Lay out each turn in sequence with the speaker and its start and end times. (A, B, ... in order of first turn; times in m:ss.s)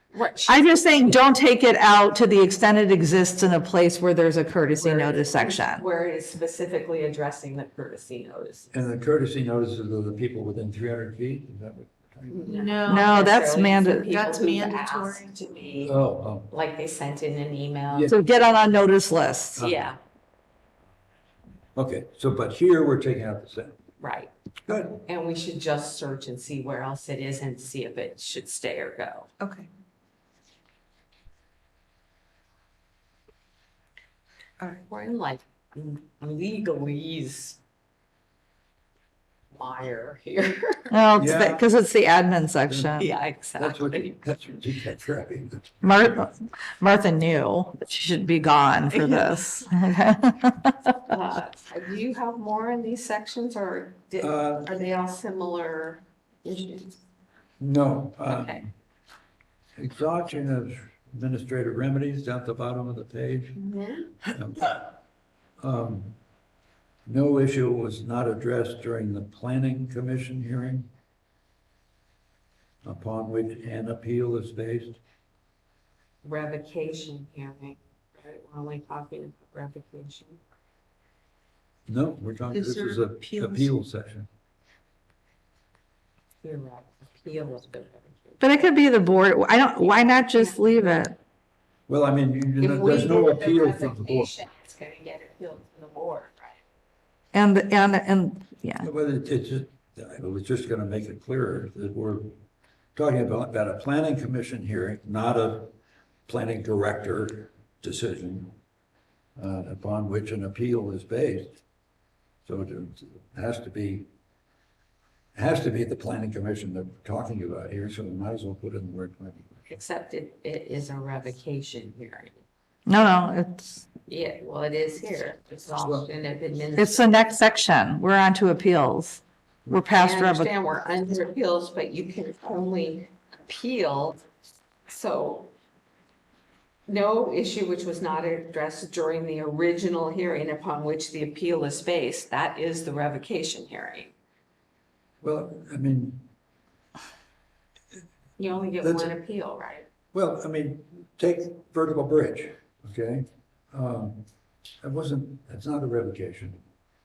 0:00.1-0:01.1 A
0:00.5-0:05.8 B
0:04.8-0:08.7 A
0:08.7-0:12.6 C
0:12.3-0:18.2 A
0:12.5-0:15.3 D
0:12.9-0:14.0 B
0:15.8-0:16.5 C
0:17.9-0:18.2 C
0:18.1-0:19.7 B
0:19.6-0:20.0 A
0:21.8-0:23.8 C
0:24.0-0:24.3 A
0:24.7-0:25.0 C
0:25.0-0:29.3 A
0:29.4-0:29.7 D
0:34.9-0:37.6 A
0:39.5-0:41.0 A
0:40.9-0:43.1 B
0:41.2-0:41.6 C
0:42.7-0:43.0 C
0:43.0-0:44.2 A
0:43.6-0:45.8 C
0:45.8-0:50.9 B
0:48.9-0:49.6 A
0:51.0-0:57.0 A
0:54.2-0:54.7 C
0:57.6-0:58.7 C
0:58.3-0:58.6 A
0:59.8-1:03.6 C
1:03.6-1:04.2 A
1:04.3-1:04.9 C
1:05.6-1:06.2 C
1:07.1-1:10.9 C
1:12.8-1:15.0 C
1:16.2-1:20.4 A
1:21.9-1:24.3 C
1:22.5-1:23.7 D
1:26.4-1:28.7 A
1:28.4-1:31.2 B
1:29.9-1:30.6 A
1:31.9-1:34.3 C
1:32.6-1:36.6 A
1:37.3-1:38.9 B
1:38.8-1:42.3 C
1:43.0-1:45.7 C
1:46.3-1:48.5 C
1:49.4-1:51.6 C
1:52.5-1:54.1 C
1:55.4-1:59.6 C
1:59.7-2:02.4 A
2:02.9-2:03.9 B
2:04.1-2:07.2 A
2:05.8-2:06.1 C
2:06.8-2:10.5 B
2:09.9-2:14.2 A
2:14.9-2:15.5 A
2:16.9-2:24.1 A
2:25.2-2:26.3 C
2:28.4-2:29.9 A
2:28.8-2:29.2 C
2:30.1-2:34.2 C
2:34.8-2:36.6 C